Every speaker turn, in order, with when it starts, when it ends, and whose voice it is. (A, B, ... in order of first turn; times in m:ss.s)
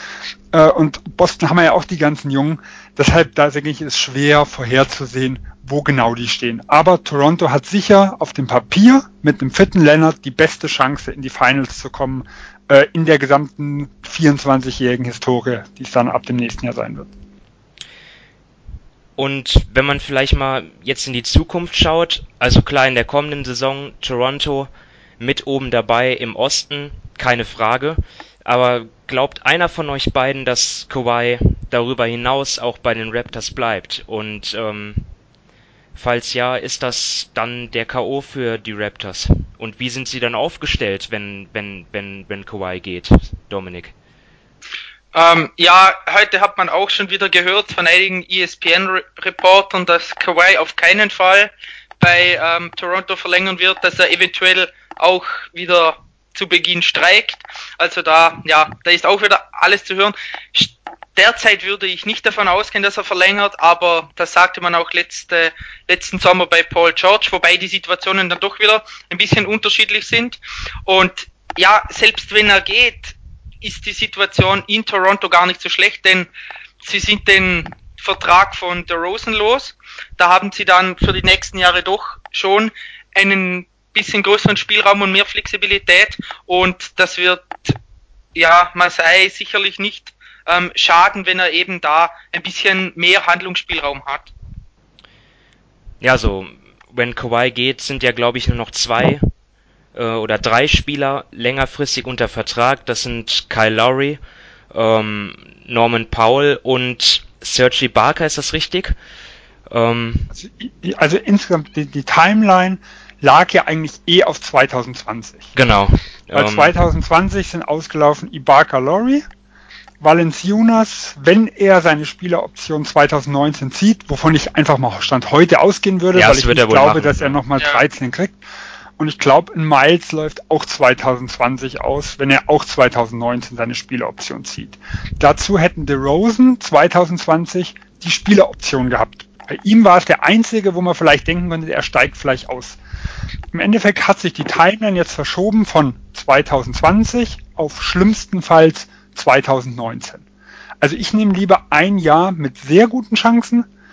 0:00.5-0:17.1 A
0:19.2-0:35.1 B
0:35.9-0:43.9 B
0:45.1-1:16.3 C
1:16.8-1:27.8 C
1:28.3-1:34.3 C
1:36.0-1:39.3 B
1:39.9-1:44.2 B
1:44.7-1:48.9 B
1:49.7-1:50.3 B
1:50.3-1:55.5 A
1:55.5-1:56.7 B
1:56.3-1:59.2 A
2:00.0-2:08.4 A
2:06.1-2:07.4 B
2:09.0-2:22.8 A
2:23.5-2:30.2 A
2:30.8-2:33.7 A